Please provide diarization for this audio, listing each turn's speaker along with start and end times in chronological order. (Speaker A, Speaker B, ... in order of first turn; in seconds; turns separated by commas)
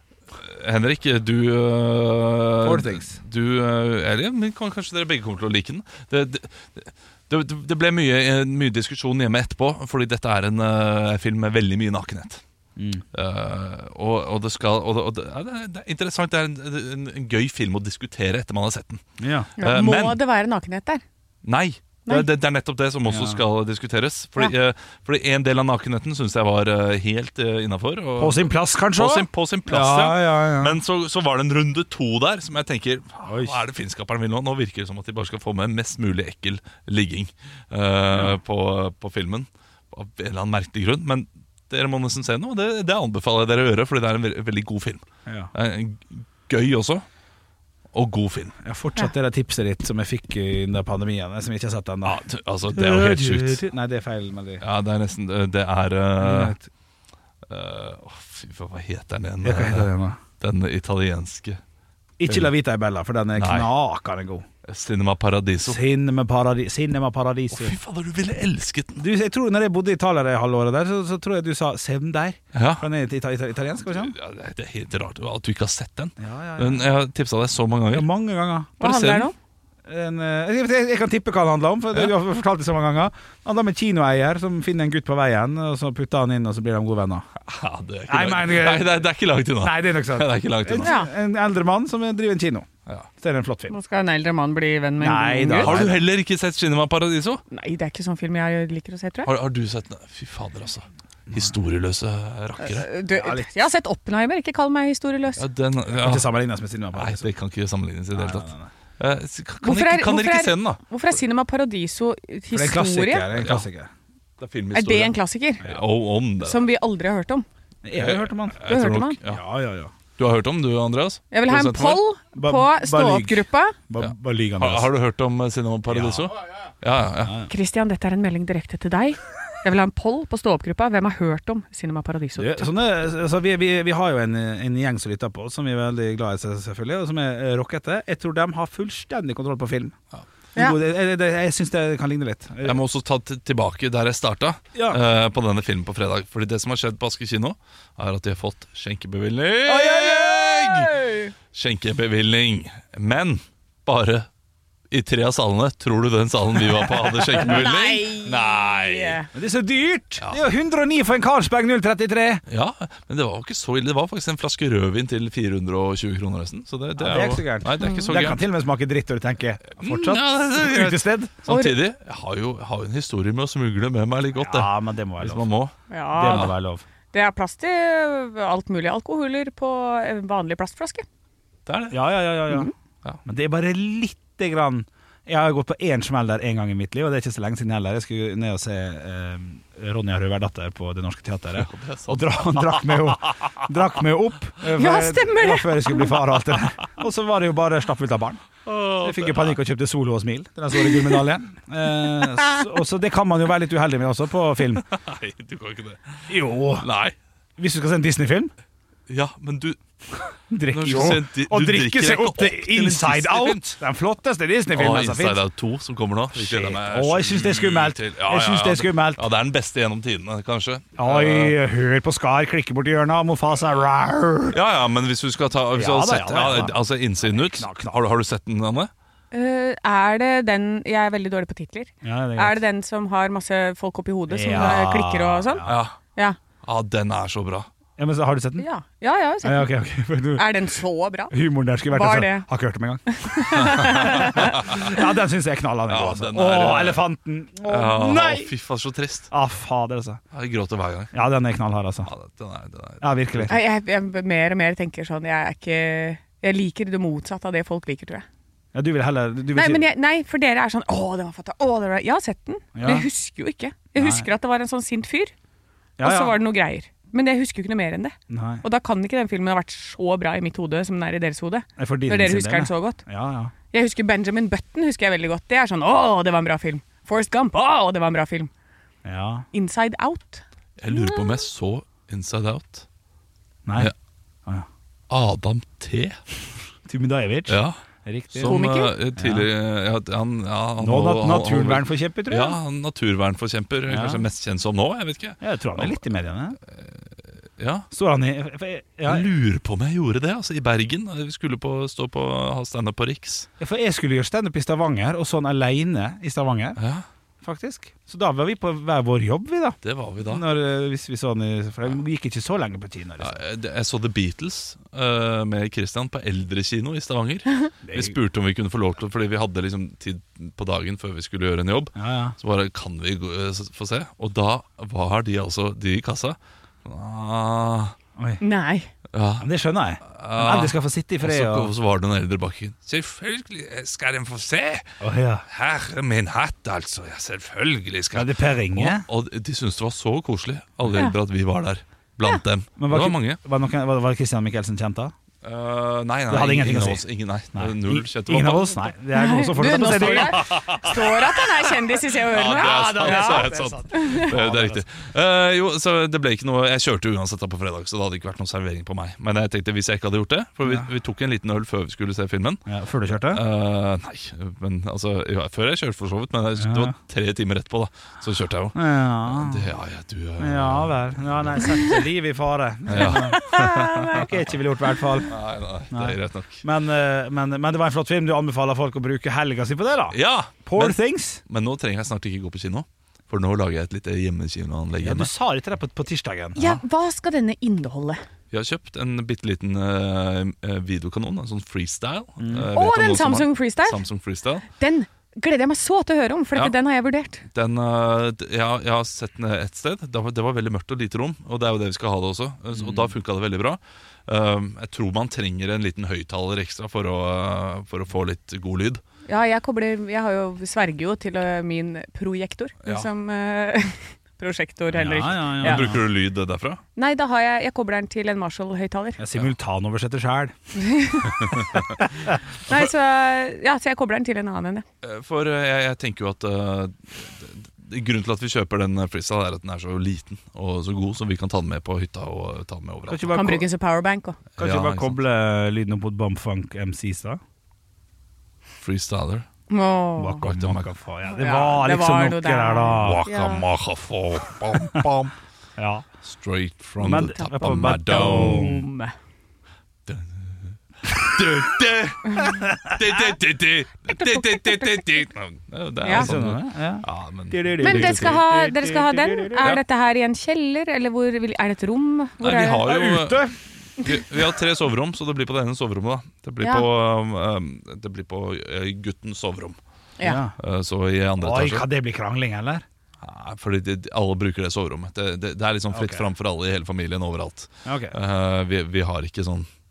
Speaker A: 0.3-12.4, Speaker B: 2.6-3.1, Speaker B: 12.8-13.0, Speaker A: 13.1-19.0, Speaker B: 19.2-19.5, Speaker A: 19.6-20.2, Speaker C: 19.6-21.0, Speaker A: 21.4-47.0, Speaker B: 23.1-23.4, Speaker B: 28.2-30.8, Speaker B: 33.2-33.6, Speaker B: 45.3-45.5, Speaker A: 47.9-48.5, Speaker B: 48.6-52.2, Speaker A: 52.0-53.6, Speaker B: 52.7-54.6, Speaker A: 54.6-56.6, Speaker B: 56.2-56.7, Speaker A: 57.5-59.9, Speaker B: 59.4-60.2, Speaker A: 60.4-61.6, Speaker B: 62.2-64.5, Speaker A: 63.4-63.7, Speaker A: 64.7-65.8, Speaker B: 65.6-67.8, Speaker A: 67.5-69.0, Speaker B: 69.0-74.1, Speaker A: 72.5-72.9, Speaker A: 73.9-78.1, Speaker B: 76.2-76.9, Speaker B: 77.9-78.8, Speaker A: 78.8-79.3, Speaker C: 78.8-79.3, Speaker B: 79.8-87.3, Speaker A: 87.4-90.9, Speaker B: 88.1-89.0, Speaker B: 89.6-92.7, Speaker C: 90.8-91.1, Speaker B: 93.2-93.8, Speaker C: 93.7-95.8, Speaker B: 95.0-96.0, Speaker A: 95.6-97.4, Speaker C: 97.5-99.3, Speaker A: 99.2-102.9, Speaker C: 102.6-105.5, Speaker B: 103.1-103.5, Speaker A: 105.4-106.3, Speaker B: 105.9-107.3, Speaker A: 106.9-110.8, Speaker B: 108.1-108.7, Speaker C: 109.6-113.3, Speaker B: 112.5-113.9, Speaker A: 113.3-113.7, Speaker A: 114.4-116.7, Speaker C: 114.7-115.8, Speaker C: 116.4-117.5, Speaker B: 117.8-118.6, Speaker A: 117.9-119.4, Speaker C: 118.7-119.2, Speaker B: 119.3-119.9, Speaker A: 120.2-122.0, Speaker C: 121.3-123.8, Speaker B: 122.3-124.9, Speaker A: 124.0-127.4, Speaker B: 125.9-126.3, Speaker B: 127.2-127.5, Speaker C: 127.5-132.7, Speaker B: 132.4-140.0, Speaker B: 140.6-142.8, Speaker A: 142.6-150.9, Speaker B: 144.8-145.0, Speaker B: 149.7-150.6, Speaker C: 149.7-151.3, Speaker A: 151.5-154.3, Speaker A: 154.9-159.2, Speaker B: 156.8-157.5, Speaker C: 157.4-159.3, Speaker B: 159.3-162.4, Speaker A: 162.5-168.4, Speaker B: 167.0-171.4, Speaker C: 167.8-168.1, Speaker A: 169.8-174.7, Speaker C: 171.5-171.8, Speaker B: 174.3-175.4, Speaker A: 175.2-176.5, Speaker C: 175.9-176.6, Speaker B: 176.1-176.8, Speaker C: 177.1-181.1, Speaker A: 181.7-182.0, Speaker B: 181.9-182.7, Speaker B: 183.2-198.5, Speaker A: 191.6-192.9, Speaker C: 194.7-196.2, Speaker A: 198.7-199.6, Speaker B: 199.0-204.8, Speaker C: 200.9-201.2, Speaker C: 202.4-202.6, Speaker A: 204.9-207.2, Speaker B: 206.3-206.9, Speaker B: 207.6-208.5, Speaker A: 209.1-209.8, Speaker B: 210.5-215.4, Speaker A: 210.7-213.6, Speaker A: 214.7-221.6, Speaker B: 216.3-219.3, Speaker B: 221.0-224.6, Speaker A: 224.5-228.9, Speaker B: 225.7-228.0, Speaker C: 229.3-235.7, Speaker B: 232.0-232.6, Speaker B: 234.3-235.8, Speaker A: 234.5-234.8, Speaker A: 235.7-236.0, Speaker A: 236.6-237.7, Speaker B: 238.0-238.7, Speaker C: 238.6-239.7, Speaker B: 239.4-240.6, Speaker C: 240.3-241.3, Speaker B: 241.3-248.5, Speaker C: 241.9-242.5, Speaker C: 243.1-244.9, Speaker A: 243.8-244.8, Speaker A: 245.9-247.0, Speaker A: 247.7-249.3, Speaker B: 249.3-250.2, Speaker A: 250.3-251.1, Speaker B: 251.1-252.1, Speaker A: 252.1-253.6, Speaker B: 253.0-253.6, Speaker C: 253.5-258.3, Speaker B: 258.7-259.9, Speaker C: 259.5-265.3, Speaker B: 262.8-263.1, Speaker B: 264.0-264.3, Speaker B: 266.0-266.4, Speaker C: 266.0-273.0, Speaker B: 268.3-268.6, Speaker B: 271.8-273.5, Speaker C: 273.7-278.5, Speaker B: 279.1-279.5, Speaker C: 279.5-281.4, Speaker A: 280.8-282.9, Speaker B: 283.7-283.9, Speaker A: 285.1-286.2, Speaker B: 286.9-288.6, Speaker A: 287.5-287.8, Speaker A: 288.3-296.0, Speaker C: 288.4-288.9, Speaker B: 289.2-289.5, Speaker B: 290.8-292.6, Speaker B: 293.9-294.2, Speaker B: 295.4-296.6, Speaker A: 296.7-297.9, Speaker B: 297.9-299.3, Speaker A: 299.1-303.5, Speaker B: 303.6-306.8, Speaker A: 306.8-307.1, Speaker B: 307.4-313.4, Speaker A: 309.8-310.4, Speaker A: 313.2-327.9, Speaker B: 317.9-318.2, Speaker B: 322.0-322.4, Speaker C: 328.4-328.9, Speaker A: 329.1-329.5, Speaker B: 329.4-331.7, Speaker A: 330.0-334.9, Speaker B: 335.0-335.4, Speaker A: 335.5-343.4, Speaker B: 338.1-339.1, Speaker C: 340.9-341.2, Speaker B: 342.8-345.1, Speaker A: 345.4-348.9, Speaker B: 346.3-351.2, Speaker C: 349.1-354.3, Speaker A: 349.8-351.0, Speaker A: 352.2-362.6, Speaker B: 352.4-354.8, Speaker B: 362.7-363.4, Speaker A: 363.3-371.8, Speaker B: 366.6-366.9, Speaker B: 368.8-369.7, Speaker B: 370.4-373.5, Speaker A: 372.9-374.3, Speaker C: 373.0-374.3, Speaker B: 374.1-375.4, Speaker A: 375.3-376.6, Speaker B: 375.9-381.4, Speaker A: 380.1-385.3, Speaker B: 385.0-386.7, Speaker C: 386.6-388.2, Speaker A: 388.5-394.7, Speaker B: 392.4-392.7, Speaker C: 392.7-394.0, Speaker C: 394.7-397.4, Speaker A: 397.5-409.0, Speaker B: 402.7-403.1, Speaker C: 409.3-416.0, Speaker A: 412.8-413.1, Speaker B: 414.9-416.0, Speaker A: 415.1-416.8, Speaker C: 417.0-419.2, Speaker B: 419.2-420.5, Speaker C: 420.8-421.5, Speaker A: 421.4-421.9, Speaker B: 422.0-422.8, Speaker C: 422.7-424.9, Speaker A: 425.0-433.6, Speaker B: 433.1-433.7, Speaker C: 433.3-434.4, Speaker A: 434.6-435.2, Speaker B: 434.6-437.4, Speaker A: 438.8-439.5, Speaker C: 439.7-440.4, Speaker B: 440.2-443.2, Speaker A: 440.4-440.9, Speaker C: 441.3-443.6, Speaker A: 442.9-445.3, Speaker B: 445.8-446.1, Speaker A: 446.2-448.7, Speaker B: 447.0-448.9, Speaker C: 447.0-449.1, Speaker A: 450.1-458.4, Speaker C: 452.3-452.5, Speaker B: 452.5-452.9, Speaker C: 454.1-455.2, Speaker C: 456.0-456.3, Speaker B: 456.1-459.8, Speaker C: 457.8-463.0, Speaker A: 462.4-469.8, Speaker B: 462.8-463.6, Speaker C: 466.6-466.9, Speaker B: 470.2-470.6, Speaker A: 470.6-471.9, Speaker B: 471.4-472.9, Speaker A: 473.2-479.7, Speaker B: 475.9-476.2, Speaker B: 477.9-478.2